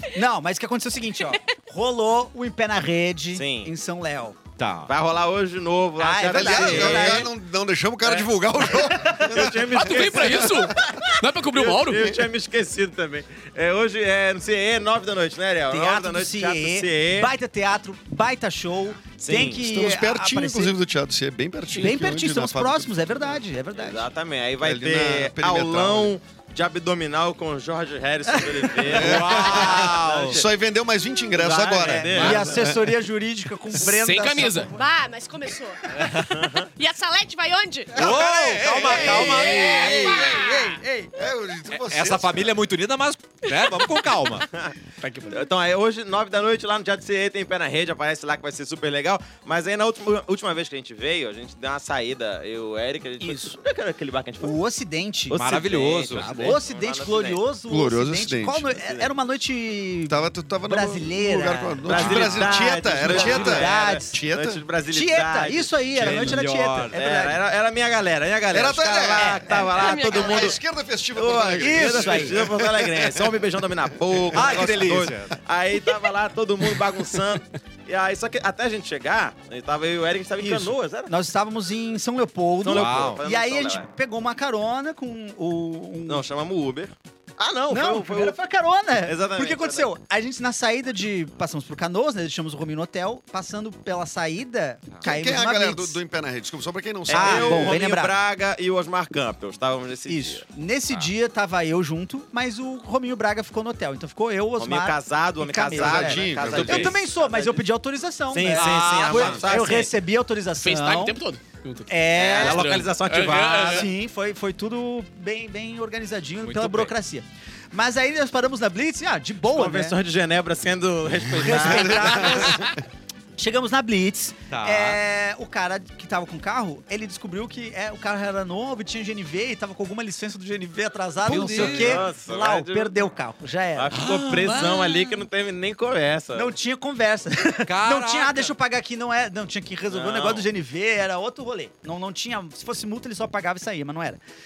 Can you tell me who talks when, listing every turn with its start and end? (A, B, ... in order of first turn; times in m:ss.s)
0:00.1-0:04.4 A
0:03.3-0:03.7 B
0:04.6-0:04.9 C
0:04.9-0:07.3 B
0:06.0-0:07.3 A
0:06.3-0:11.0 D
0:08.0-0:10.6 B
0:08.9-0:09.4 A
0:09.7-0:12.1 E
0:11.5-0:17.3 B
0:11.9-0:12.2 D
0:15.7-0:20.8 A
0:19.2-0:19.6 B
0:19.6-0:23.4 D
0:21.7-0:24.1 A
0:23.8-0:30.5 B
0:24.6-0:26.1 D
0:28.3-0:28.9 A
0:28.9-0:32.9 D
0:29.0-0:30.4 C
0:31.3-0:32.6 B
0:31.8-0:34.8 A
0:33.8-0:34.7 E
0:34.7-0:38.0 F
0:35.9-0:36.2 C
0:36.3-0:36.7 B
0:38.0-0:40.3 C
0:38.0-0:40.4 D
0:38.0-0:41.1 A
0:39.6-0:40.6 F
0:41.1-0:42.6 D
0:41.7-0:44.5 C
0:43.4-0:44.3 F
0:45.0-0:45.5 E
0:45.3-0:54.6 B
0:53.2-0:53.6 A
0:54.4-0:55.7 A
0:55.3-0:56.5 C
0:55.5-0:57.4 B
0:56.2-1:04.2 A
0:56.3-0:56.5 E
0:57.7-0:58.7 D
0:58.8-0:59.1 B
1:00.1-1:04.6 D
1:01.9-1:06.4 B
1:04.9-1:07.4 A
1:05.9-1:07.0 C
1:06.9-1:10.6 B
1:08.5-1:13.4 D
1:09.1-1:09.9 A
1:09.8-1:10.6 F
1:11.1-1:21.1 B
1:11.6-1:12.5 A
1:14.1-1:14.8 D
1:14.3-1:15.4 C
1:20.4-1:26.3 A
1:22.6-1:23.9 B
1:22.7-1:23.2 C
1:26.1-1:28.4 B
1:27.7-1:36.0 A
1:29.0-1:29.9 B
1:35.0-1:37.8 D
1:37.1-1:40.4 B
1:37.1-1:38.2 A
1:40.1-1:51.2 A
1:44.6-1:47.6 B
1:45.8-1:47.0 D
1:46.6-1:46.9 C
1:48.3-1:49.9 B
1:48.5-1:49.5 C
1:50.6-1:53.9 E
1:51.9-1:52.7 A
1:52.2-1:53.9 B
1:53.5-2:00.0 A
1:56.4-1:56.9 C
1:59.5-2:02.6 B
2:01.3-2:02.7 A
2:01.6-2:02.6 D
2:03.4-2:13.9 A
2:04.5-2:05.0 C
2:11.2-2:12.1 C
2:11.3-2:13.0 B
2:13.8-2:16.5 B
2:13.9-2:15.1 C
2:16.3-2:24.2 A
2:17.7-2:18.5 C
2:19.9-2:20.4 B